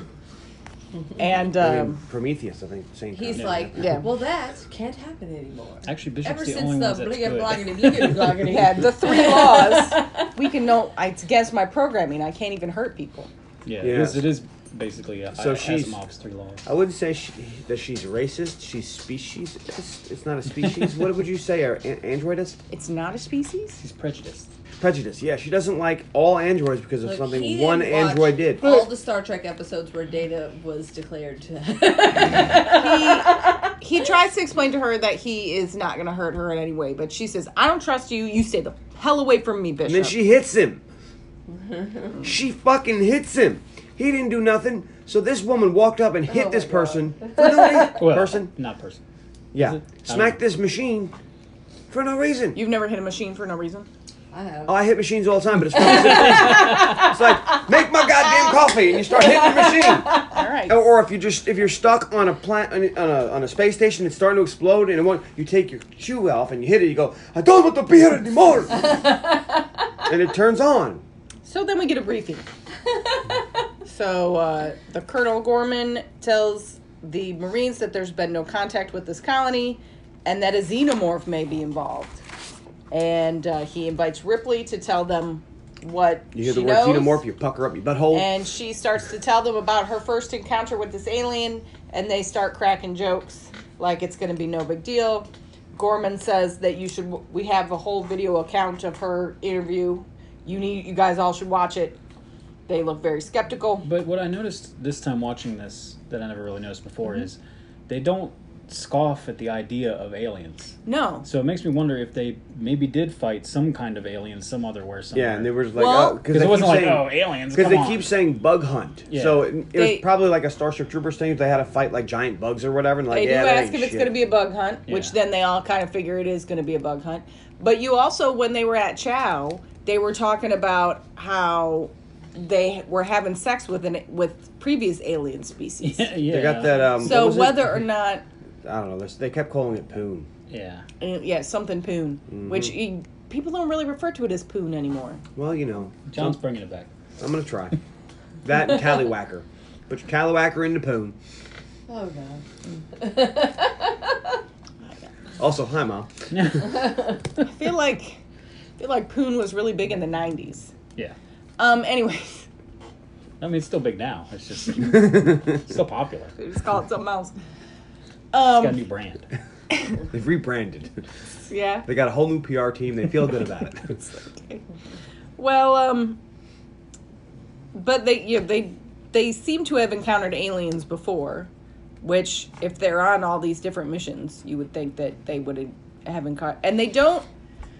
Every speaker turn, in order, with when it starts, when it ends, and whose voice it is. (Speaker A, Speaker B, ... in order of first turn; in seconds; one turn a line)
Speaker A: 1.2-2.0
Speaker B: 1.6-4.0
Speaker C: 3.1-10.3
Speaker D: 3.3-3.7
Speaker A: 3.8-4.1
Speaker D: 5.8-8.4
Speaker A: 8.4-13.3
Speaker D: 13.7-16.6
Speaker B: 13.8-14.3
Speaker B: 15.3-16.0
Speaker B: 16.6-22.6
Speaker A: 22.7-23.8
Speaker D: 23.8-24.5
Speaker B: 24.8-28.7
Speaker C: 27.0-33.6
Speaker A: 32.6-40.2
Speaker B: 39.8-40.8
Speaker C: 41.5-42.1
Speaker B: 42.2-48.5
Speaker C: 46.3-48.0
Speaker D: 47.9-49.0
Speaker B: 49.5-51.1
Speaker D: 49.6-50.4
Speaker B: 51.9-52.6
Speaker A: 52.5-53.9
Speaker C: 54.3-54.8
Speaker B: 54.7-68.9
Speaker C: 55.7-60.4
Speaker A: 60.3-60.8
Speaker C: 68.7-70.0
Speaker B: 70.0-71.0
Speaker A: 71.5-72.5
Speaker C: 72.9-73.4
Speaker A: 73.8-82.2
Speaker A: 82.9-87.2
Speaker B: 86.3-88.3
Speaker A: 88.1-102.0
Speaker A: 102.7-103.9
Speaker D: 103.8-115.6
Speaker A: 110.9-111.3
Speaker B: 115.1-124.1
Speaker A: 115.8-116.2
Speaker D: 116.2-118.1
Speaker D: 119.1-119.5
Speaker A: 119.7-120.1
Speaker A: 123.1-136.1
Speaker D: 124.9-125.1
Speaker D: 135.8-137.0
Speaker B: 136.3-137.8
Speaker A: 137.0-138.2
Speaker B: 138.6-140.3
Speaker D: 140.5-140.9
Speaker A: 141.0-145.2
Speaker B: 142.3-142.8
Speaker B: 145.3-146.4
Speaker D: 146.1-146.9
Speaker B: 147.2-147.8
Speaker B: 148.4-151.2
Speaker C: 151.9-154.4
Speaker B: 155.4-156.1
Speaker D: 156.3-156.9
Speaker C: 156.8-157.1
Speaker A: 157.4-158.2
Speaker A: 158.8-160.7
Speaker A: 161.6-162.5
Speaker D: 163.4-166.4
Speaker A: 166.4-167.3
Speaker A: 168.3-168.8
Speaker D: 168.5-169.3
Speaker A: 169.7-170.0
Speaker B: 170.1-171.0
Speaker A: 171.5-171.9
Speaker B: 171.9-173.9
Speaker A: 173.9-174.6
Speaker A: 175.4-176.2
Speaker A: 177.7-181.5
Speaker A: 182.0-187.3